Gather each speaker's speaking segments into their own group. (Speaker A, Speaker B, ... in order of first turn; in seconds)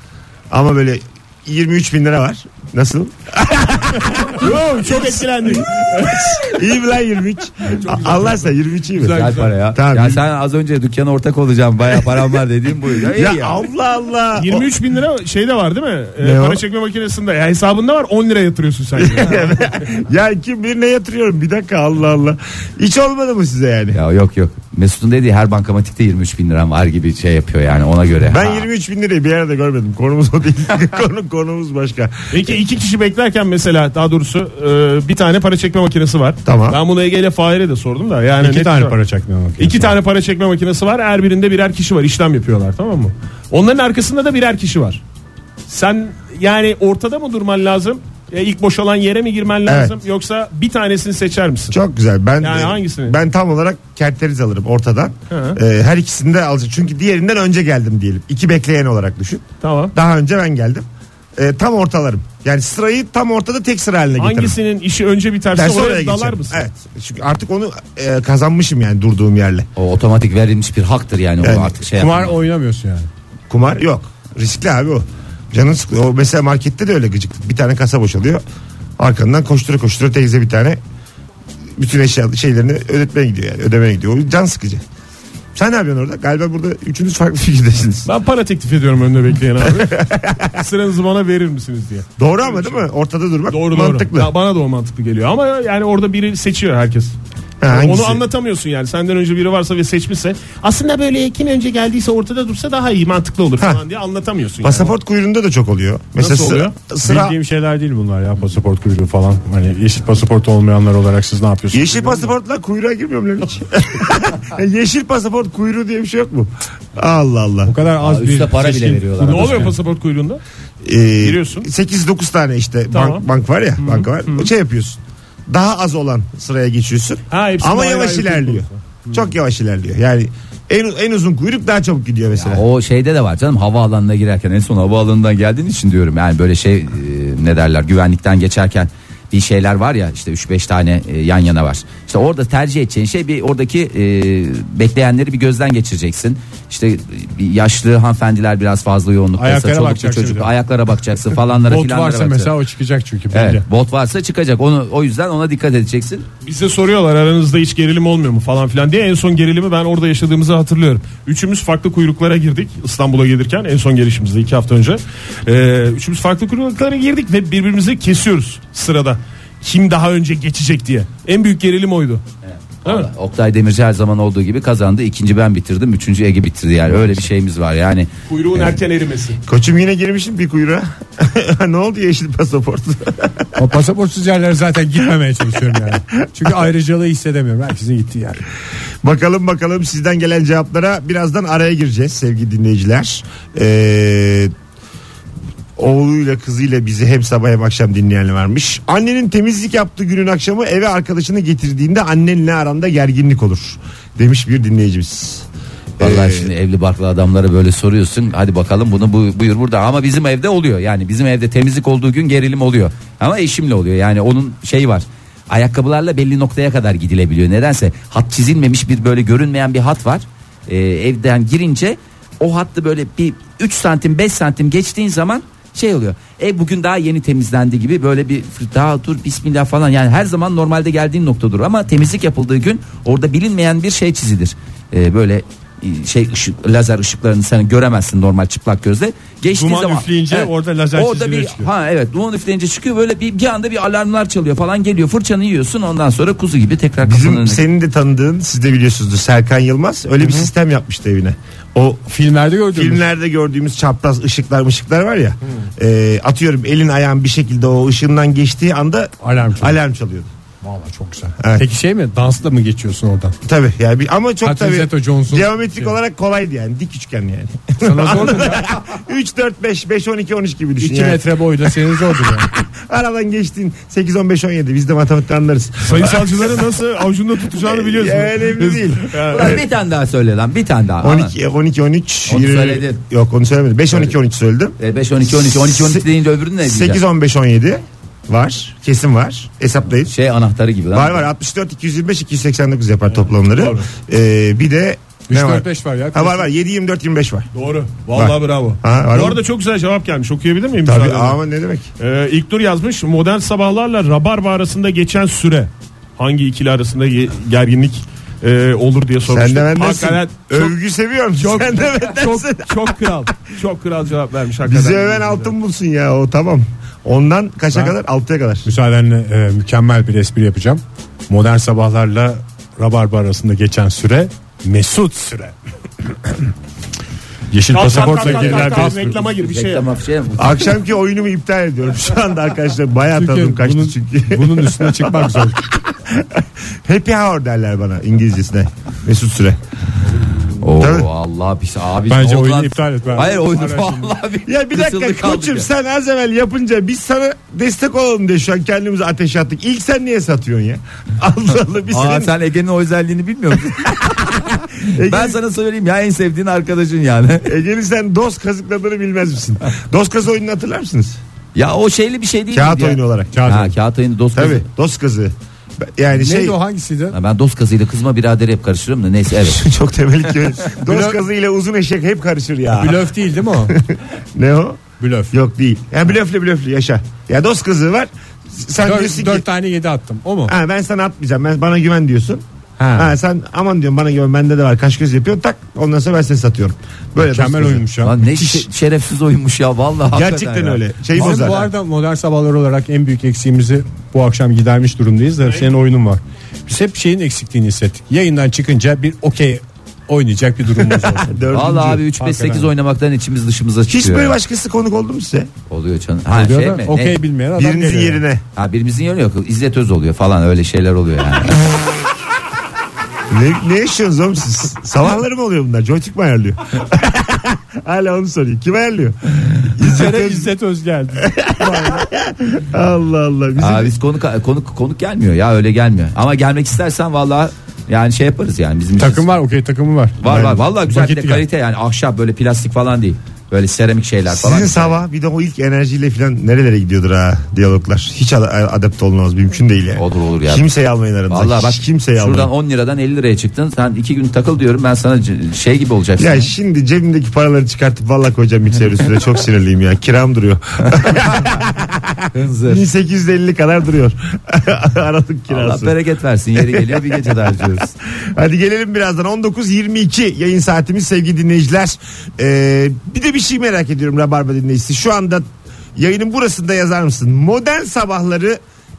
Speaker A: 0.5-5.6, 6.2-10.2, 13.0-14.7, 16.2-16.6, 19.0-24.0, 28.3-32.5, 36.5-36.8, 49.7-50.0, 51.7-60.9, 61.4-64.6, 65.5-69.7, 71.4-71.8, 73.5-78.4, 79.0-80.8, 81.8-84.8, 85.5-88.1, 89.7-90.6, 92.2-94.3, 97.6-98.2, 104.6-107.4, 111.7-117.7, 120.8-132.6, 179.5-183.5, 189.0-194.5, 195.8-205.5, 206.0-206.5, 247.0-252.1, 252.7-260.3, 261.4-261.6, 263.4-276.6, 277.4-279.6, 281.0-286.1, 286.6-290.1, 290.9-297.5, 298.1-299.4, 300.9-301.9, 309.3-313.2, 314.6-318.7, 330.4-339.6, 340.8-341.1, 344.5-352.3, 353.7-355.4, 357.4-361.2, 362.5-363.4, 364.4-366.6, 369.4-373.0, 373.6-374.8, 375.3-379.4, 380.5-382.4, 383.0-387.9, 390.1-391.7, 400.8-402.0, 403.9-405.5, 407.6-408.4, 413.3-420.5, 421.2-423.9, 430.2-430.6, 434.3-442.5, 446.2-455.9, 456.6-465.4, 466.0-468.6
Speaker B: 4.3-6.6, 7.7-9.5, 14.4-19.6, 32.3-39.0, 39.6-45.0, 45.7-51.8, 52.4-53.2, 55.3-55.6, 59.6-59.9, 64.2-66.6, 88.0-92.9, 93.5-97.2, 97.7-104.9, 106.2-106.7, 119.2-120.4, 121.2-121.7, 122.9-123.2, 123.8-124.5, 127.3-128.8, 156.4-172.2, 178.3-179.4, 275.9-279.6, 293.5-293.9, 297.5-301.4, 302.0-310.7, 311.4-315.5, 327.7-329.9
Speaker C: 9.1-13.6, 23.9-28.7, 69.8-72.4, 118.0-119.8, 132.4-152.6, 153.3-156.2, 172.5-178.8, 206.0-247.6, 279.2-281.3, 282.3-283.0, 284.8-287.0, 290.1-291.2, 328.4-330.7, 340.6-345.7, 351.9-357.5, 361.6-364.6, 367.1-369.7, 388.0-391.5, 401.5-404.4, 405.7-407.2, 408.6-411.6, 423.6-429.3, 430.2-435.0, 440.0-440.7, 441.3-446.5, 451.0-451.5, 452.3-452.8, 455.5-457.9
Speaker D: 38.4-40.0, 71.9-73.1, 107.0-112.3, 117.6-119.7, 149.4-150.5, 151.6-153.6, 183.6-188.4, 239.5-241.7, 252.1-253.1, 259.2-259.8, 260.6-263.4, 264.4-266.0, 267.8-268.7, 270.8-272.5, 295.3-296.5, 318.6-325.5, 327.5-329.2, 333.1-335.7, 342.1-344.1, 363.3-363.7, 366.1-367.2, 370.9-371.2, 372.7-373.8, 375.0-375.4, 378.8-380.6, 382.8-383.1, 387.2-388.7, 391.1-402.7, 406.3-408.2, 419.8-422.1, 429.0-431.4